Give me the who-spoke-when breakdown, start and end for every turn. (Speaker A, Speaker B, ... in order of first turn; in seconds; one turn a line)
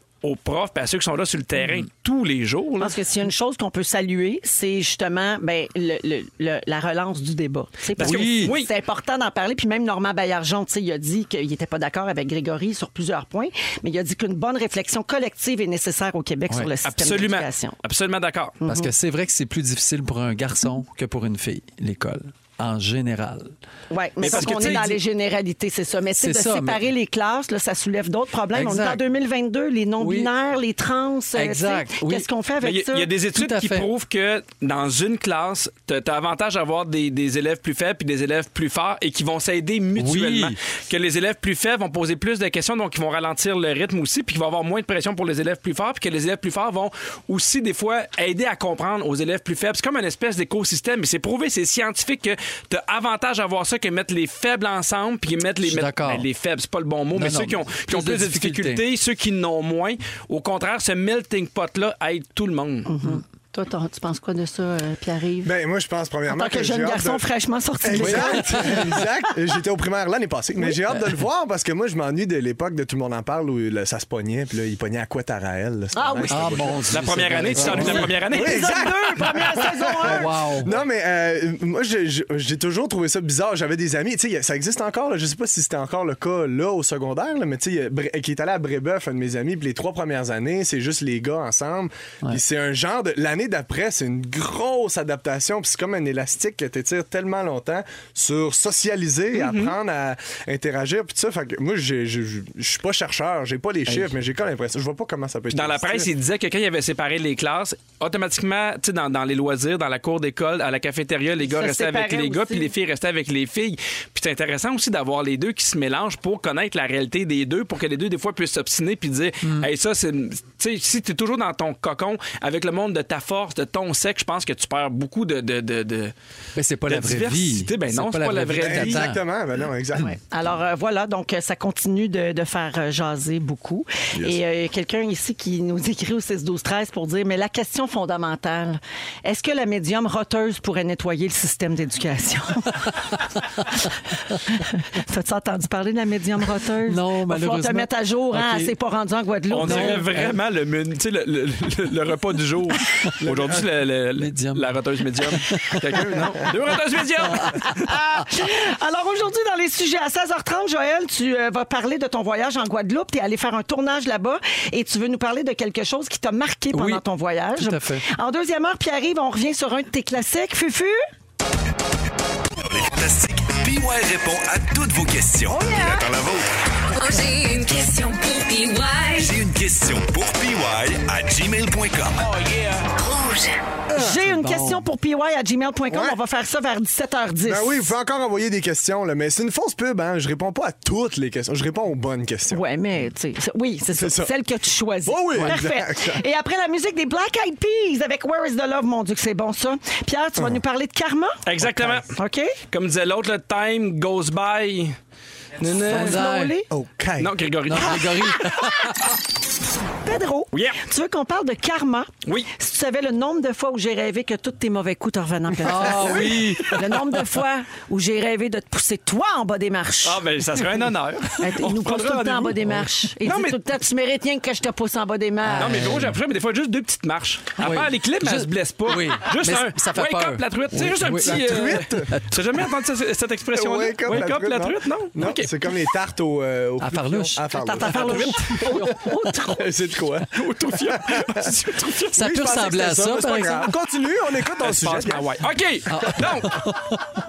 Speaker A: 0.2-3.0
Speaker B: 2.8-17.7
Speaker A: 8.0-8.7
Speaker C: 8.0-8.5
Speaker A: 16.8-18.6
Speaker B: 18.6-18.9
Speaker C: 18.6-23.5
Speaker B: 23.9-33.1
Speaker A: 24.2-25.0
Speaker C: 24.2-24.8
Speaker C: 26.1-26.8
Speaker C: 28.5-29.0
Speaker C: 30.0-30.3
Speaker C: 31.3-32.2
Speaker A: 32.6-62.9
Speaker C: 33.3-33.9
Speaker C: 40.0-40.6
Speaker C: 55.6-56.2
Speaker C: 57.1-58.8
Speaker B: 62.9-65.5
Speaker D: 65.4-67.2
Speaker B: 66.3-69.1
Speaker D: 67.8-76.8
Speaker C: 67.9-69.0
Speaker C: 70.9-71.1
Speaker B: 75.9-76.5
Speaker C: 76.3-78.1
Speaker A: 76.9-78.8
Speaker D: 77.5-106.1
Speaker B: 77.6-80.3
Speaker C: 80.0-80.8
Speaker A: 99.3-99.7
Speaker A: 105.5-126.1
Speaker B: 111.4-112.7
Speaker C: 119.4-119.7
Speaker C: 126.5-129.2
Speaker A: 126.9-129.1
Speaker D: 128.6-130.1
Speaker B: 130.0-143.1
Speaker B: 143.7-150.1
Speaker C: 146.8-148.7
Speaker A: 149.5-157.9
Speaker C: 149.6-150.4
Speaker D: 153.2-153.6
Speaker C: 154.2-156.2
Speaker C: 157.2-157.6
Speaker B: 157.6-171.0
Speaker C: 166.7-167.0
Speaker C: 167.6-168.1
Speaker E: 172.6-176.5
Speaker B: 175.5-176.1
Speaker F: 176.9-179.3
Speaker E: 179.1-182.8
Speaker F: 182.9-183.5
Speaker D: 183.9-184.2
Speaker B: 184.0-187.9
Speaker C: 184.0-184.8
Speaker D: 185.9-186.2
Speaker D: 187.4-192.6
Speaker B: 192.5-201.4
Speaker D: 193.9-194.3
Speaker D: 195.1-196.2
Speaker A: 201.4-202.1
Speaker B: 202.1-202.6
Speaker A: 202.7-204.9
Speaker A: 205.6-206.2
Speaker C: 205.8-206.6
Speaker B: 205.9-206.7
Speaker D: 206.7-207.3
Speaker A: 207.2-208.2
Speaker C: 207.7-209.1
Speaker B: 207.8-208.6
Speaker B: 210.0-220.2
Speaker A: 210.5-210.8
Speaker A: 212.2-212.5
Speaker C: 215.6-217.2
Speaker A: 220.0-222.6
Speaker B: 221.4-226.0
Speaker A: 223.2-223.6
Speaker C: 225.4-226.2
Speaker A: 225.6-235.5
Speaker C: 227.6-232.7
Speaker D: 231.2-232.2
Speaker D: 233.5-240.3
Speaker C: 236.8-237.4
Speaker B: 237.5-239.7
Speaker A: 237.9-238.4
Speaker A: 240.3-242.2
Speaker D: 240.8-241.4
Speaker D: 242.1-245.2
Speaker C: 242.1-243.7
Speaker A: 244.6-246.7
Speaker C: 245.9-247.1